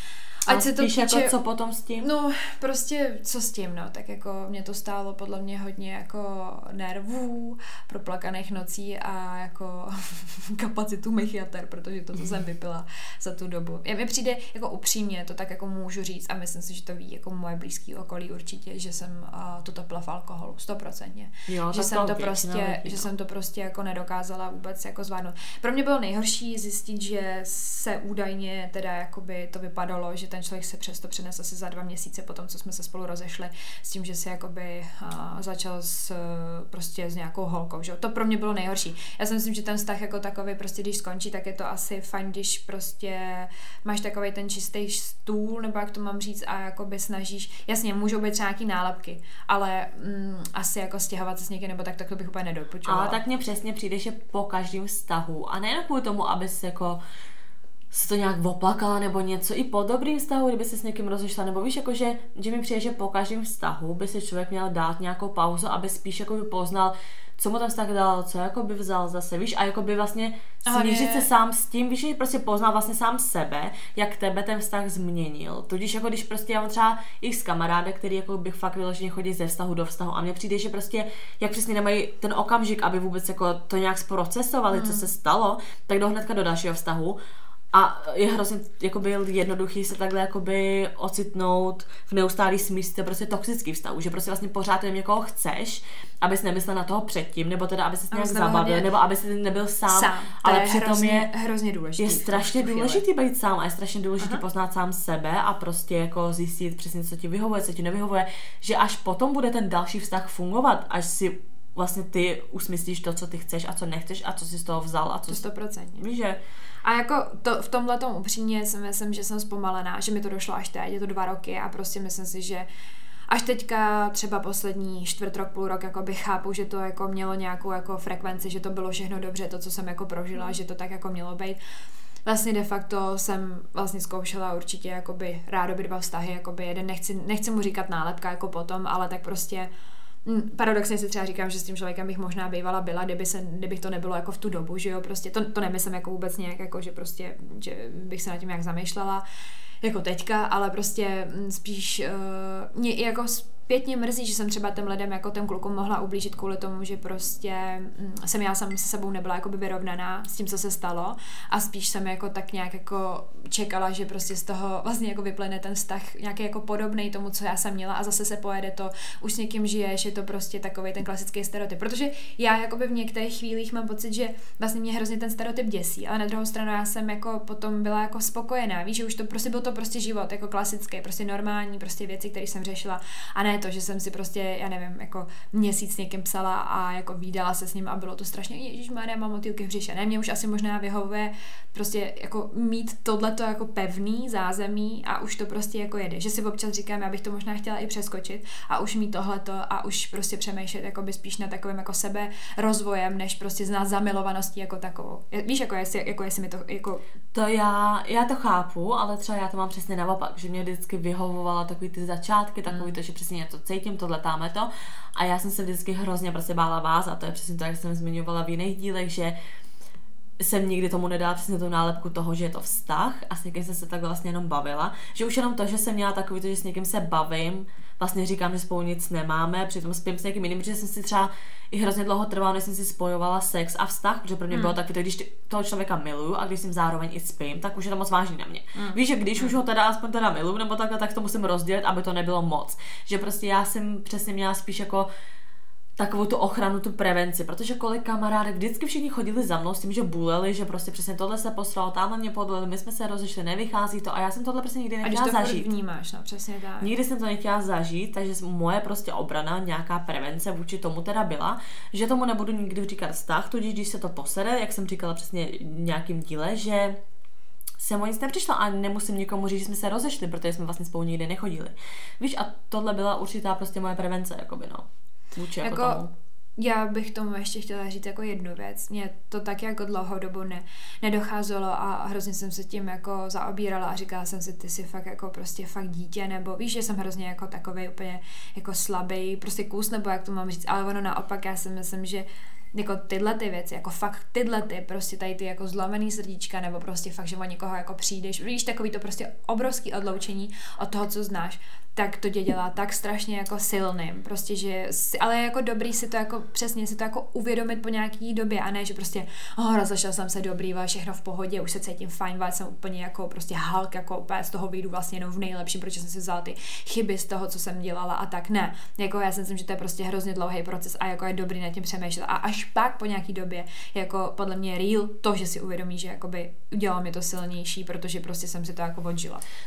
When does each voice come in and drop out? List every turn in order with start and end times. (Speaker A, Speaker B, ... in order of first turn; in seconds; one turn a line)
Speaker A: 0.4-1.3
Speaker B: 0.5-2.1
Speaker A: 2.0-53.2
Speaker B: 21.5-23.1
Speaker B: 52.9-57.0
Speaker B: 57.9-87.2
Speaker A: 70.7-71.3
Speaker A: 84.7-85.1
Speaker B: 87.7-101.3
Speaker A: 98.1-98.9
Speaker A: 99.9-103.0
Speaker B: 102.0-115.4
Speaker A: 115.3-116.0
Speaker B: 116.0-116.4
Speaker A: 116.8-122.7
Speaker A: 123.3-131.6
Speaker A: 132.2-139.7
Speaker A: 140.2-149.2
Speaker A: 149.8-207.0
Speaker B: 207.3-219.3
Speaker A: 212.7-212.9
Speaker B: 220.4-245.1
Speaker A: 234.5-234.8
Speaker A: 238.8-239.6
Speaker B: 246.0-255.7
Speaker A: 255.0-256.9
Speaker B: 256.8-267.0
Speaker B: 267.8-276.1
Speaker A: 275.6-276.0
Speaker A: 276.6-329.4